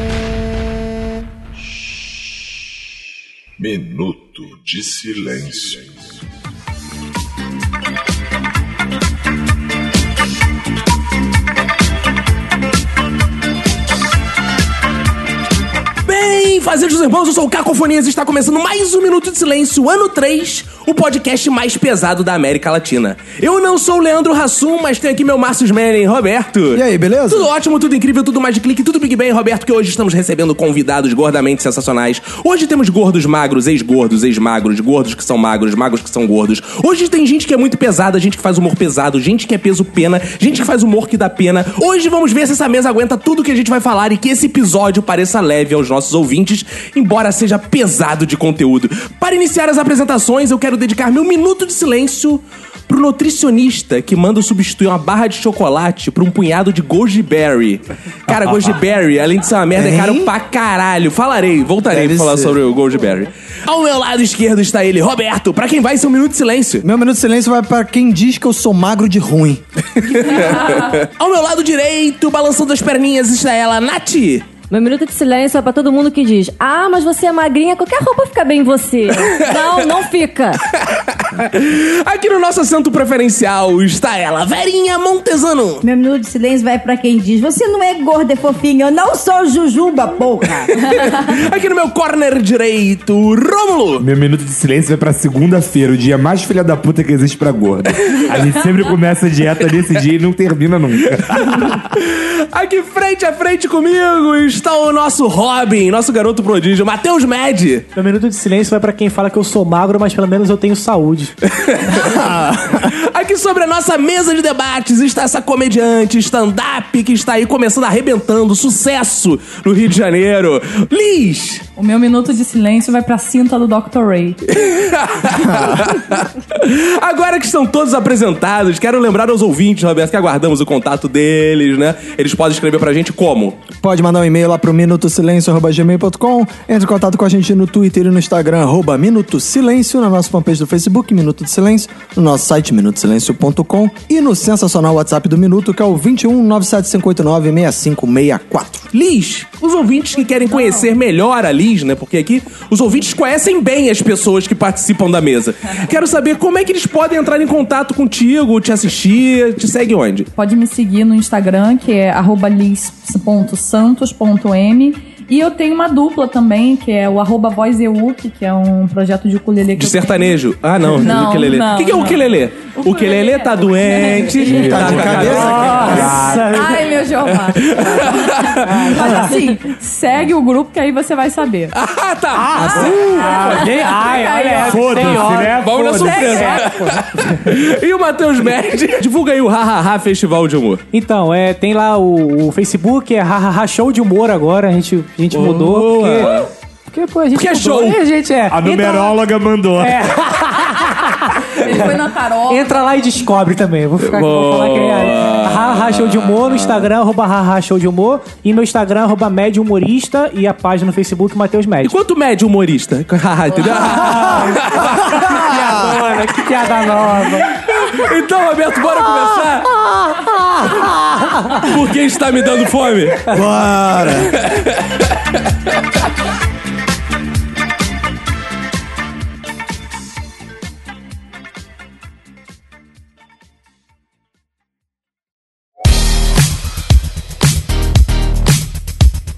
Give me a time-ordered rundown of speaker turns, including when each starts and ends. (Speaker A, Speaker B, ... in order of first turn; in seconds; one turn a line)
Speaker A: 3.6-6.1
Speaker B: 16.0-66.8
Speaker C: 26.7-27.5
Speaker D: 58.3-58.7
Speaker C: 59.7-60.3
Speaker C: 61.9-62.5
Speaker C: 66.8-70.7
Speaker B: 70.0-74.5
Speaker E: 74.7-80.6
Speaker B: 79.2-79.9
Speaker B: 80.7-85.8
Speaker F: 85.8-90.9
Speaker B: 90.7-94.0
Speaker D: 94.0-101.8
Speaker B: 101.1-107.9
Speaker G: 107.9-111.3
Speaker B: 111.5-121.6
Speaker C: 112.0-112.9
Speaker H: 121.8-124.4
Speaker B: 124.5-133.6
Speaker C: 125.3-125.8
Speaker C: 133.8-148.9
Speaker B: 148.9-160.3
Speaker H: 150.5-150.9
Speaker H: 160.3-181.7
Speaker B: 169.8-176.2
Speaker C: 174.5-176.1
Speaker G: 175.3-177.0
Speaker D: 175.8-176.5
Speaker B: 177.2-179.2
Speaker G: 178.7-179.3
Speaker B: 181.7-183.5
Speaker G: 182.3-185.6
Speaker H: 182.7-185.3
Speaker D: 182.8-183.7
Speaker D: 184.6-186.4
Speaker B: 185.6-190.8
Speaker H: 185.9-186.8
Speaker G: 186.2-187.5
Speaker G: 190.9-199.0
Speaker B: 195.3-196.5
Speaker B: 197.3-198.0
Speaker D: 198.5-200.2
Speaker G: 199.8-211.9
Speaker H: 201.4-203.0
Speaker B: 204.0-206.9
Speaker B: 211.8-215.4
Speaker G: 213.9-217.6
Speaker C: 214.4-216.0
Speaker B: 217.3-219.7
Speaker G: 221.3-221.6
Speaker B: 221.6-223.2
Speaker C: 223.3-224.3
Speaker B: 224.3-225.1